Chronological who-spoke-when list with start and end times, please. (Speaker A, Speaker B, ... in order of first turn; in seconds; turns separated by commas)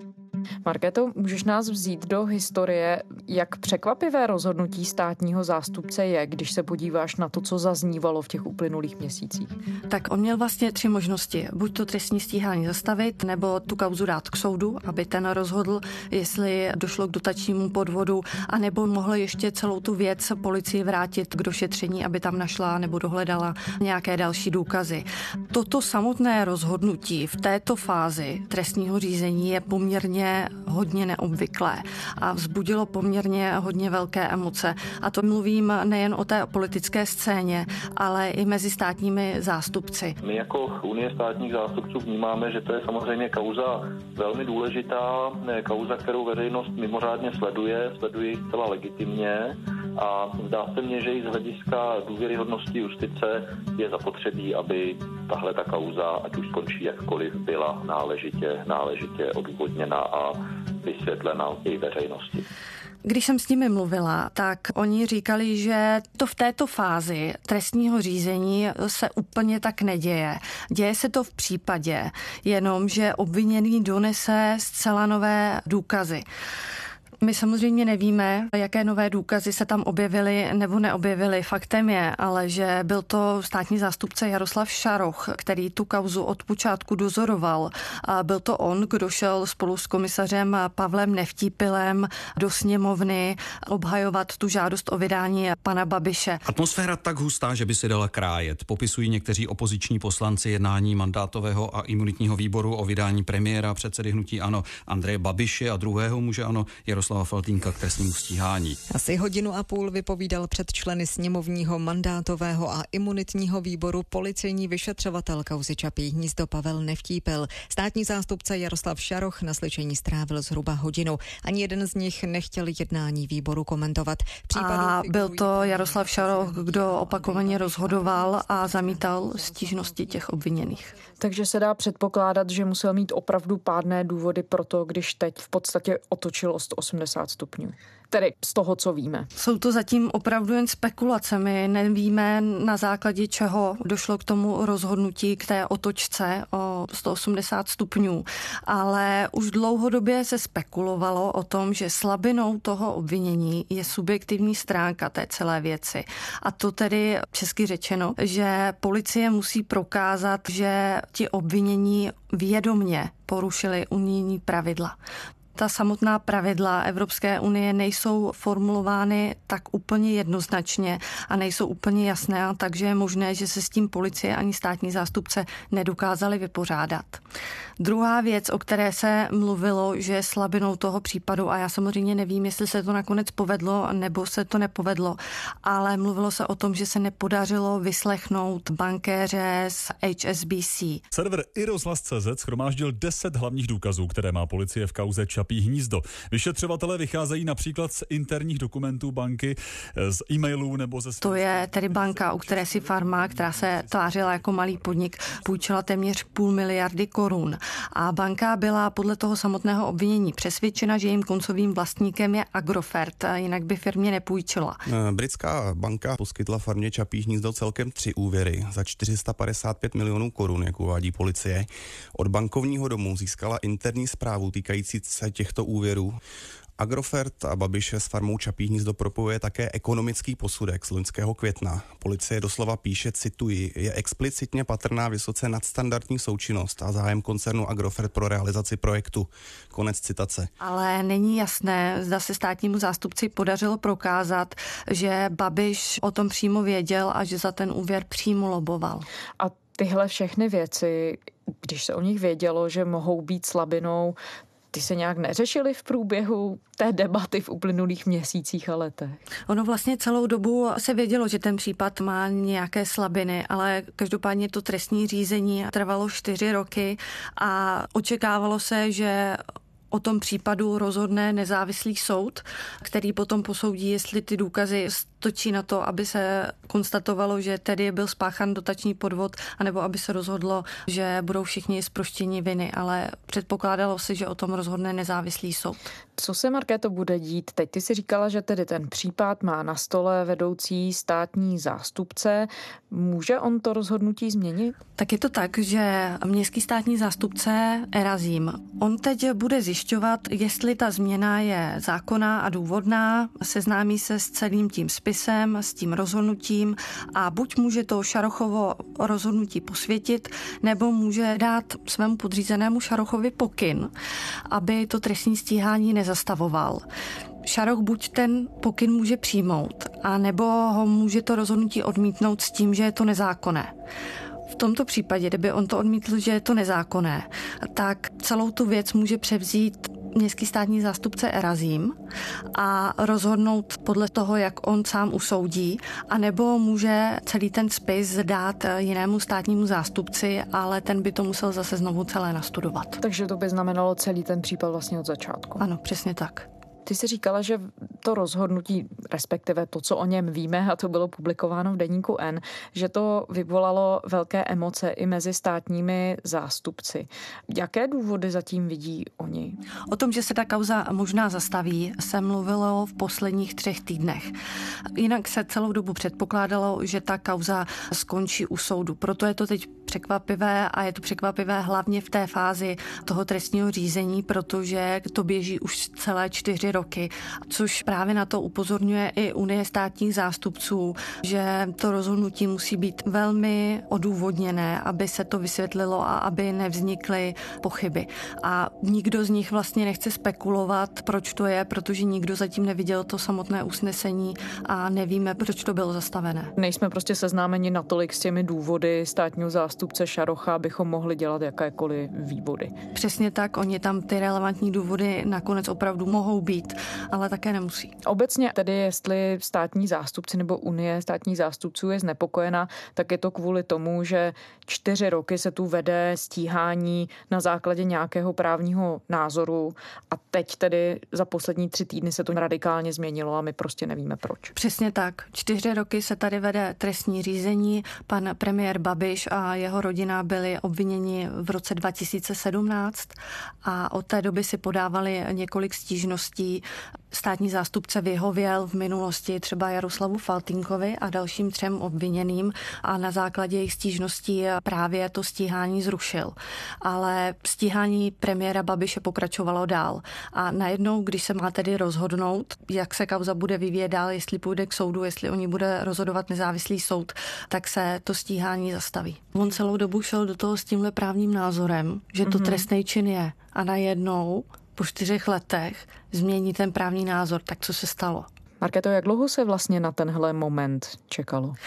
Speaker A: 0.7-9.5, Speaker B: 9.9-40.2, Speaker C: 40.2-62.4, Speaker B: 63.0-76.2, Speaker B: 77.2-96.4, Speaker D: 96.5-108.6, Speaker E: 108.9-129.7, Speaker B: 124.5-130.9, Speaker A: 131.2-139.3, Speaker B: 139.3-165.0, Speaker B: 165.6-177.2, Speaker B: 177.8-191.0, Speaker F: 191.1-201.7, Speaker B: 201.2-214.8, Speaker G: 214.9-226.2, Speaker G: 226.8-240.5, Speaker B: 240.6-249.1, Speaker A: 249.4-254.2, Speaker A: 254.7-259.2, Speaker B: 259.5-269.4, Speaker B: 269.9-285.9, Speaker A: 286.2-294.8, Speaker B: 295.0-313.9, Speaker B: 314.5-316.9, Speaker B: 317.4-323.7, Speaker B: 324.5-332.0, Speaker B: 332.5-343.0, Speaker A: 343.0-345.6, Speaker B: 345.6-346.5, Speaker A: 346.9-359.6, Speaker B: 359.9-364.3, Speaker B: 365.0-396.5, Speaker A: 396.6-402.7, Speaker B: 402.9-407.9, Speaker A: 408.0-424.5, Speaker B: 424.6-468.3, Speaker A: 462.3-462.6, Speaker A: 468.6-471.6